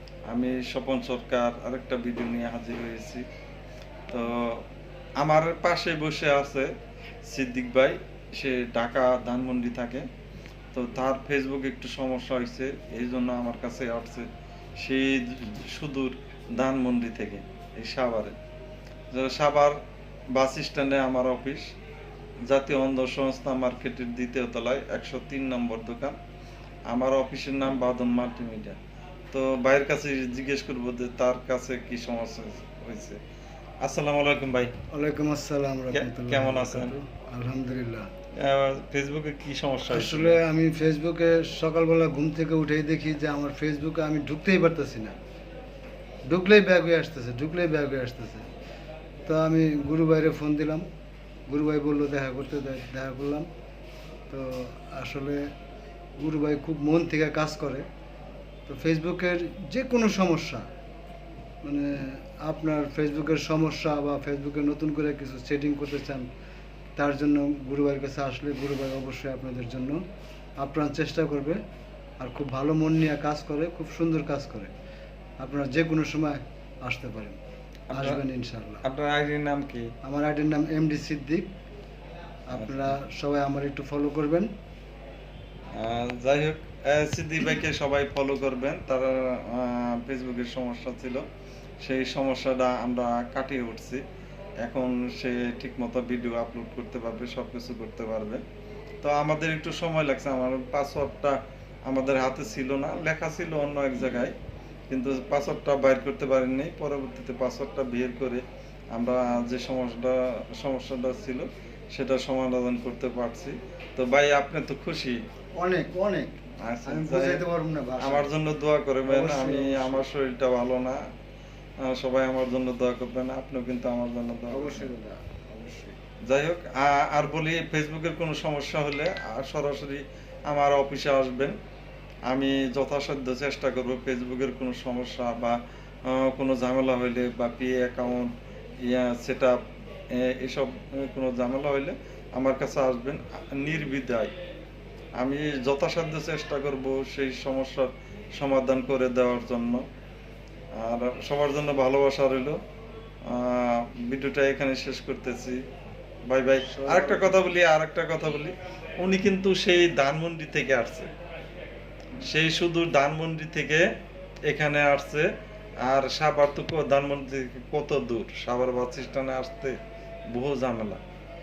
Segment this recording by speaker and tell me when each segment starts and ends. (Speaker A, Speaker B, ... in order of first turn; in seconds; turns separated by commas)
Speaker A: 0.3-3.2, Speaker A: 4.1-4.6, Speaker A: 5.2-6.7, Speaker A: 7.3-10.1, Speaker A: 10.7-14.3, Speaker A: 14.8-18.3, Speaker A: 19.1-19.8, Speaker A: 20.3-21.7, Speaker A: 22.5-26.2, Speaker A: 26.9-28.8, Speaker A: 29.3-33.2, Speaker A: 33.8-34.7, Speaker B: 34.9-38.1, Speaker A: 35.9-37.0, Speaker A: 38.4-40.4, Speaker B: 39.9-45.2, Speaker B: 46.3-48.5, Speaker B: 49.3-50.9, Speaker B: 51.5-53.5, Speaker B: 54.3-55.5, Speaker B: 56.2-57.9, Speaker B: 58.7-60.7, Speaker B: 61.6-66.3, Speaker B: 67.0-70.0, Speaker B: 70.6-71.6, Speaker B: 72.2-74.7, Speaker B: 75.4-77.4, Speaker A: 77.9-78.2, Speaker B: 77.9-78.8, Speaker A: 78.8-79.9, Speaker B: 80.0-81.5, Speaker B: 82.5-84.5, Speaker A: 82.5-83.0, Speaker A: 85.8-91.2, Speaker A: 91.8-94.0, Speaker A: 94.6-98.4, Speaker A: 99.0-101.4, Speaker A: 101.9-104.3, Speaker A: 104.9-108.4, Speaker A: 108.9-115.2, Speaker B: 115.6-118.3, Speaker A: 116.7-117.5, Speaker A: 118.0-121.0, Speaker B: 119.1-120.1, Speaker A: 121.8-124.9, Speaker B: 124.5-126.0, Speaker A: 126.3-131.6, Speaker A: 132.3-138.3, Speaker A: 138.8-139.6, Speaker A: 140.1-144.3, Speaker A: 145.2-149.8, Speaker A: 150.8-152.6, Speaker A: 153.3-155.6, Speaker A: 156.3-161.1, Speaker B: 156.6-157.5, Speaker A: 162.2-163.8, Speaker A: 164.5-165.3, Speaker A: 165.8-169.8, Speaker A: 170.3-171.0